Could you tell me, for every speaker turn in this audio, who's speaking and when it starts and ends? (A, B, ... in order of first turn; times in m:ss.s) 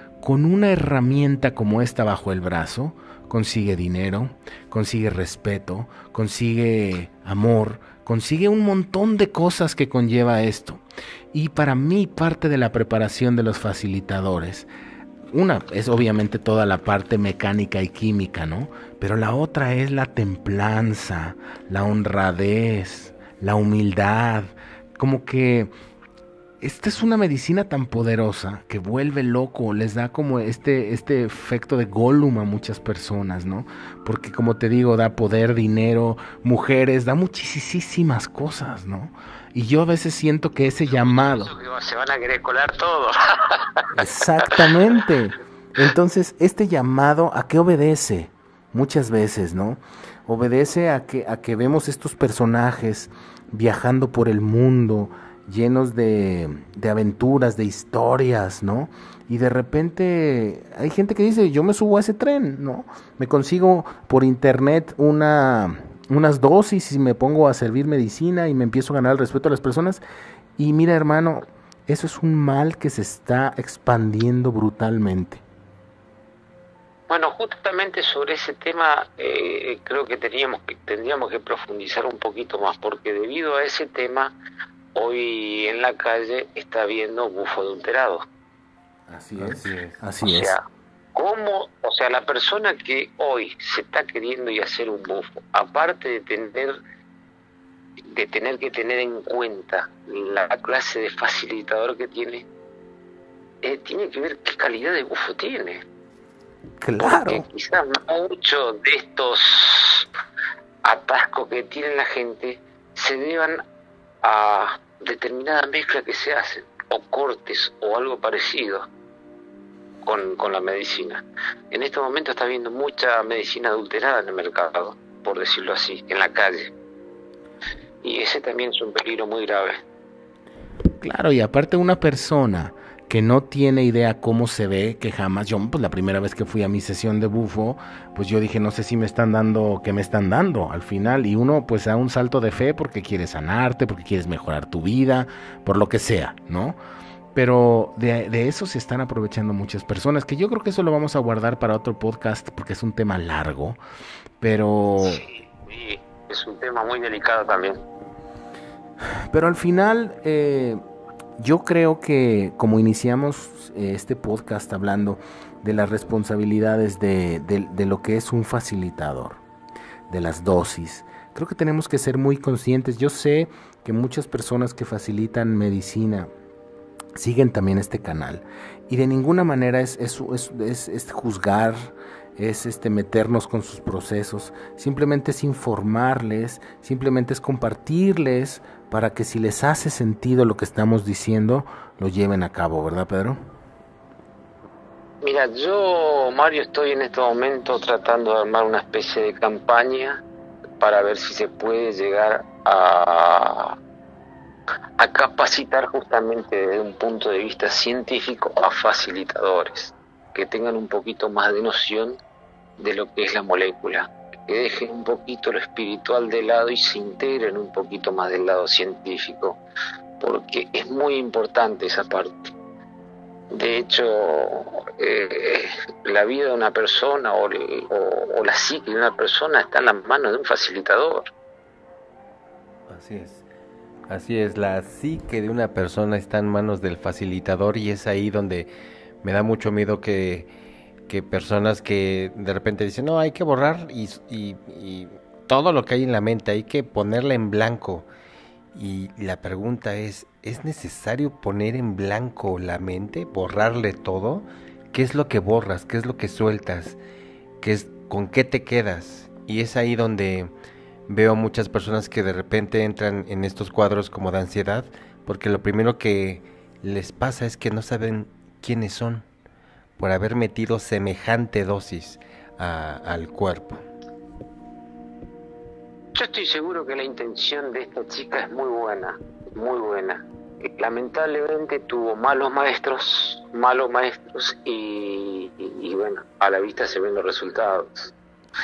0:00.2-0:10.8 A
0:11.3-0:14.7 A
0:15.3-0:25.7 A
0:26.6-0:41.5 A
0:40.9-0:43.9 B
0:43.9-1:10.0 A
1:10.6-1:15.4 A
1:17.1-1:24.3 B
1:24.9-1:28.2 B
1:29.1-1:30.6 A
1:29.4-1:30.0 C
1:30.2-1:30.6 B
1:31.2-1:36.8 B
1:38.1-1:42.4 B
1:43.6-1:45.8 B
1:46.8-1:47.4 A
1:47.0-1:50.1 B
1:50.8-1:53.6 B
1:54.2-1:58.9 B
2:00.0-2:06.7 B
2:08.0-2:09.8 B
2:11.0-2:26.8 A
2:27.4-2:33.8 A
2:34.4-2:35.2 A
2:35.0-2:37.8 B
2:39.3-2:40.8 A
2:41.4-2:49.4 A
2:50.1-2:56.3 A
2:57.2-3:13.4 A
3:15.2-3:20.2 B
3:20.8-3:23.8 B
3:25.0-3:32.2 B
3:32.8-3:39.6 B
3:40.2-3:42.5 B
3:43.5-3:51.3 B
3:52.9-3:53.4 C
3:54.1-3:58.7 C
3:59.2-4:00.5 C
4:01.1-4:08.1 C
4:08.7-4:17.0 C
4:17.6-4:20.5 C
4:21.1-4:29.2 C
4:30.0-4:33.8 C
4:36.2-4:48.1 B